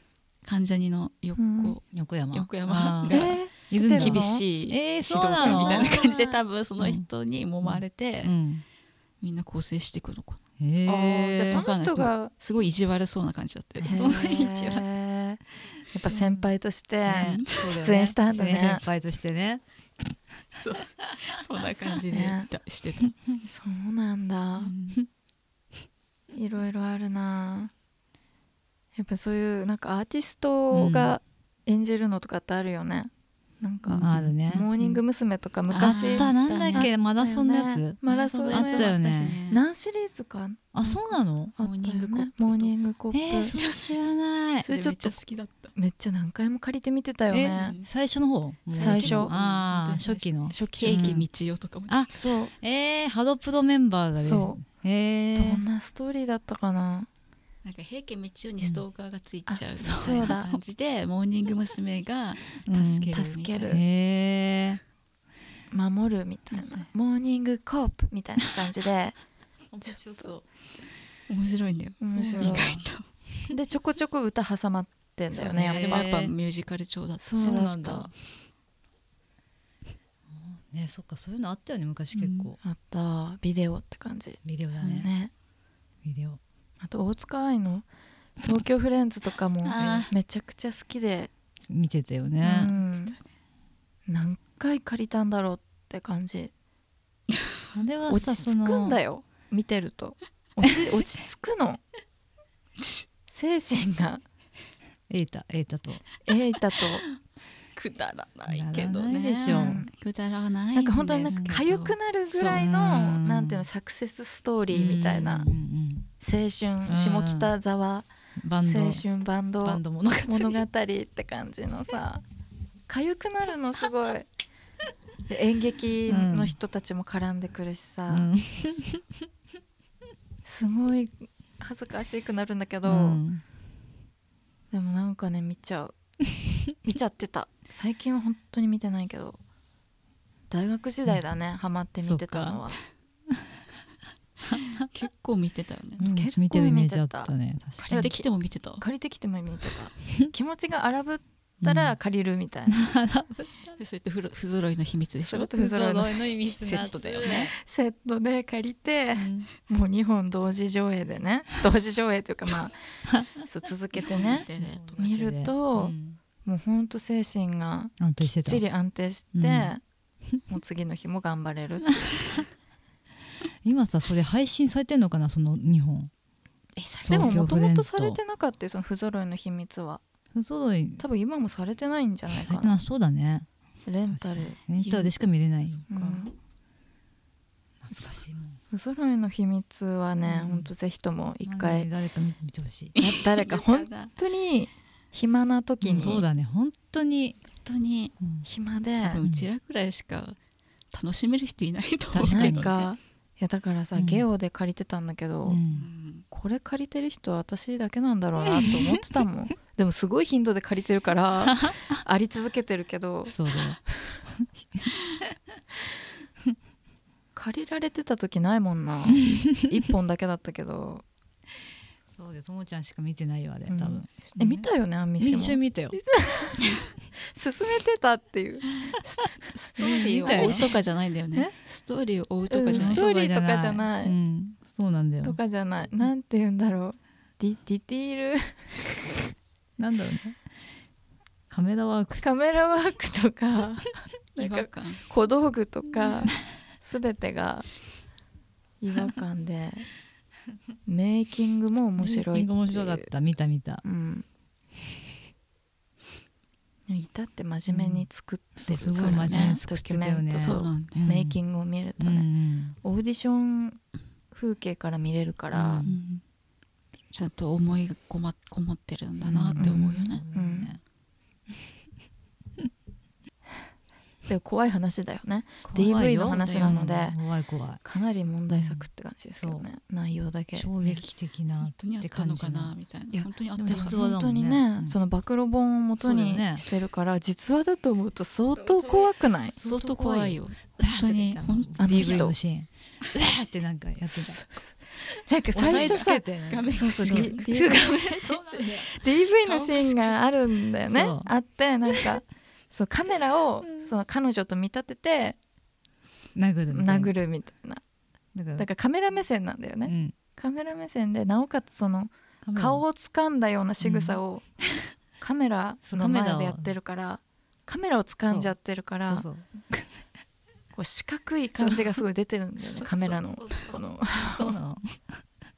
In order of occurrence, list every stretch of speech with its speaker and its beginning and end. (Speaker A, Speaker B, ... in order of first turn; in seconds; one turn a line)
Speaker A: 0.4-8.3
Speaker B: 1.4-1.8
Speaker C: 1.9-6.1
Speaker B: 3.1-4.4
Speaker B: 5.4-6.3
Speaker C: 6.8-7.1
Speaker C: 7.6-8.6
Speaker A: 9.2-10.4
Speaker C: 10.6-11.6
Speaker B: 10.8-12.3
Speaker A: 11.5-14.5
Speaker B: 13.8-18.8
Speaker C: 13.9-14.8
Speaker C: 17.0-19.6
Speaker A: 17.1-17.8
Speaker C: 20.6-21.1
Speaker A: 20.6-23.1
Speaker B: 22.1-22.5
Speaker B: 23.4-24.7
Speaker A: 24.6-25.0
Speaker B: 26.3-27.7
Speaker B: 28.9-38.9
Speaker C: 30.7-31.2
Speaker A: 33.8-35.0
Speaker C: 34.0-34.7
Speaker A: 35.7-36.9
Speaker C: 35.8-39.4
Speaker A: 38.0-39.6
Speaker B: 39.5-40.7
Speaker C: 40.7-41.5
Speaker A: 40.8-42.7
Speaker B: 41.6-43.5
Speaker C: 43.1-44.7
Speaker A: 43.4-44.0
Speaker A: 44.6-45.7
Speaker B: 44.6-45.2
Speaker B: 45.7-47.8
Speaker C: 47.3-51.2
Speaker A: 47.5-47.9
Speaker A: 48.7-52.1
Speaker B: 48.8-49.3
Speaker B: 50.5-51.2
Speaker C: 51.9-55.6
Speaker B: 52.1-52.5
Speaker B: 54.2-54.6
Speaker B: 55.3-57.1
Speaker A: 57.6-63.8
Speaker B: 59.5-60.6
Speaker C: 59.8-60.3
Speaker C: 62.6-63.1
Speaker B: 63.1-63.8
Speaker C: 63.7-64.8
Speaker B: 65.7-69.2
Speaker C: 69.7-70.5
Speaker B: 69.9-70.3
Speaker A: 71.3-73.1
Speaker B: 72.0-72.7
Speaker C: 72.3-72.8
Speaker B: 73.5-76.0
Speaker A: 75.4-77.7
Speaker C: 75.5-76.3
Speaker B: 77.2-78.1
Speaker C: 77.3-78.1
Speaker C: 80.3-82.6
Speaker A: 82.1-82.5
Speaker B: 82.6-84.4
Speaker C: 84.4-85.1
Speaker A: 84.8-85.1
Speaker B: 84.9-85.3
Speaker C: 86.0-86.4
Speaker B: 86.8-87.9
Speaker B: 88.4-91.3
Speaker A: 89.6-90.1
Speaker C: 89.8-90.1
Speaker C: 91.7-92.7
Speaker B: 92.4-93.2
Speaker A: 92.7-93.2
Speaker B: 94.1-96.5
Speaker C: 97.7-99.0
Speaker B: 98.1-101.8
Speaker A: 102.8-103.0
Speaker B: 103.3-104.2
Speaker C: 105.1-106.0
Speaker B: 106.2-107.0
Speaker A: 106.8-107.2
Speaker A: 107.8-112.7
Speaker C: 108.5-109.8
Speaker B: 109.5-109.9
Speaker B: 110.7-115.5
Speaker C: 112.5-113.7
Speaker C: 114.7-116.1
Speaker B: 116.2-118.1
Speaker C: 116.8-117.5
Speaker C: 118.4-119.0
Speaker B: 118.6-122.2
Speaker C: 119.6-120.6
Speaker B: 122.9-124.3
Speaker B: 125.3-128.3
Speaker C: 126.1-126.5
Speaker C: 128.1-129.2
Speaker B: 130.4-133.2
Speaker C: 132.8-133.4
Speaker B: 134.7-135.9
Speaker B: 136.8-139.4
Speaker B: 140.5-142.8
Speaker C: 142.0-142.6
Speaker C: 144.5-144.8
Speaker A: 144.5-146.1
Speaker C: 146.0-148.1
Speaker B: 146.0-147.3
Speaker B: 147.8-148.3
Speaker A: 147.9-148.8
Speaker B: 148.8-152.8
Speaker C: 151.6-151.9
Speaker C: 152.7-153.7
Speaker A: 153.8-155.5
Speaker B: 155.2-156.2
Speaker C: 155.5-157.5
Speaker A: 156.6-157.5
Speaker B: 157.2-164.5
Speaker C: 159.2-159.5
Speaker A: 164.0-165.1
Speaker C: 164.5-166.2
Speaker B: 165.0-169.8
Speaker C: 168.0-168.6
Speaker C: 169.3-169.7
Speaker B: 170.5-172.0
Speaker C: 173.6-176.1
Speaker A: 176.8-177.4
Speaker C: 177.0-178.2
Speaker B: 177.1-180.0
Speaker C: 180.3-181.0
Speaker B: 181.0-182.8
Speaker C: 182.4-183.5
Speaker B: 183.8-184.6
Speaker C: 184.1-185.8
Speaker A: 184.8-186.3
Speaker B: 185.9-186.3
Speaker C: 187.8-188.6
Speaker B: 188.7-191.9
Speaker C: 190.3-190.7
Speaker C: 191.4-192.9
Speaker A: 192.9-194.1
Speaker B: 193.0-196.2
Speaker C: 195.8-197.4
Speaker A: 197.6-198.1
Speaker B: 198.4-199.2
Speaker A: 199.0-200.4
Speaker C: 199.2-199.5
Speaker A: 200.9-202.9
Speaker C: 202.1-202.8
Speaker B: 202.2-205.6
Speaker C: 203.9-204.2
Speaker C: 205.4-205.9
Speaker A: 205.7-206.2
Speaker B: 206.3-213.3
Speaker C: 208.5-209.0
Speaker C: 211.5-211.9
Speaker C: 213.3-213.8
Speaker B: 213.9-214.2
Speaker C: 214.3-214.9
Speaker B: 217.3-221.0
Speaker C: 219.2-219.7
Speaker C: 222.2-224.1
Speaker B: 223.7-228.7
Speaker A: 224.2-224.7
Speaker C: 225.2-226.0
Speaker A: 228.8-233.0
Speaker B: 229.8-230.7
Speaker C: 229.8-230.7
Speaker B: 232.5-234.2
Speaker C: 232.7-235.4
Speaker B: 235.2-238.7
Speaker C: 239.8-240.4
Speaker C: 241.5-242.2
Speaker B: 242.2-247.7
Speaker A: 244.3-245.0
Speaker B: 248.8-249.9
Speaker B: 250.8-253.1
Speaker C: 252.0-253.8
Speaker B: 253.8-254.2
Speaker B: 256.9-262.3
Speaker C: 257.7-258.0
Speaker C: 258.6-261.4
Speaker A: 259.0-259.6
Speaker A: 260.4-261.0
Speaker C: 262.0-262.8
Speaker B: 262.8-263.8
Speaker B: 264.3-265.9
Speaker C: 265.5-265.9
Speaker A: 265.8-266.2
Speaker A: 267.1-270.2
Speaker C: 269.2-270.8
Speaker B: 269.5-270.7
Speaker B: 274.3-277.2
Speaker C: 275.6-277.8
Speaker A: 275.9-276.8
Speaker B: 277.8-280.7
Speaker C: 278.5-279.6
Speaker C: 280.5-282.7
Speaker A: 281.6-284.0
Speaker B: 283.1-289.6
Speaker C: 283.6-284.9
Speaker C: 286.0-286.6
Speaker A: 288.5-292.3
Speaker C: 289.6-294.4
Speaker B: 291.8-292.3
Speaker B: 294.1-298.3
Speaker C: 295.5-298.9
Speaker A: 295.6-300.2
Speaker B: 298.9-305.4
Speaker C: 300.9-301.3
Speaker C: 306.3-307.1
Speaker B: 306.7-307.8
Speaker C: 308.3-308.7
Speaker B: 308.6-314.4
Speaker C: 309.8-310.1
Speaker C: 312.4-312.8
Speaker C: 313.8-314.2
Speaker B: 315.2-319.3
Speaker C: 315.9-316.8
Speaker C: 318.2-318.5
Speaker C: 319.1-319.9
Speaker B: 320.7-324.6
Speaker C: 321.6-322.0
Speaker C: 322.8-325.2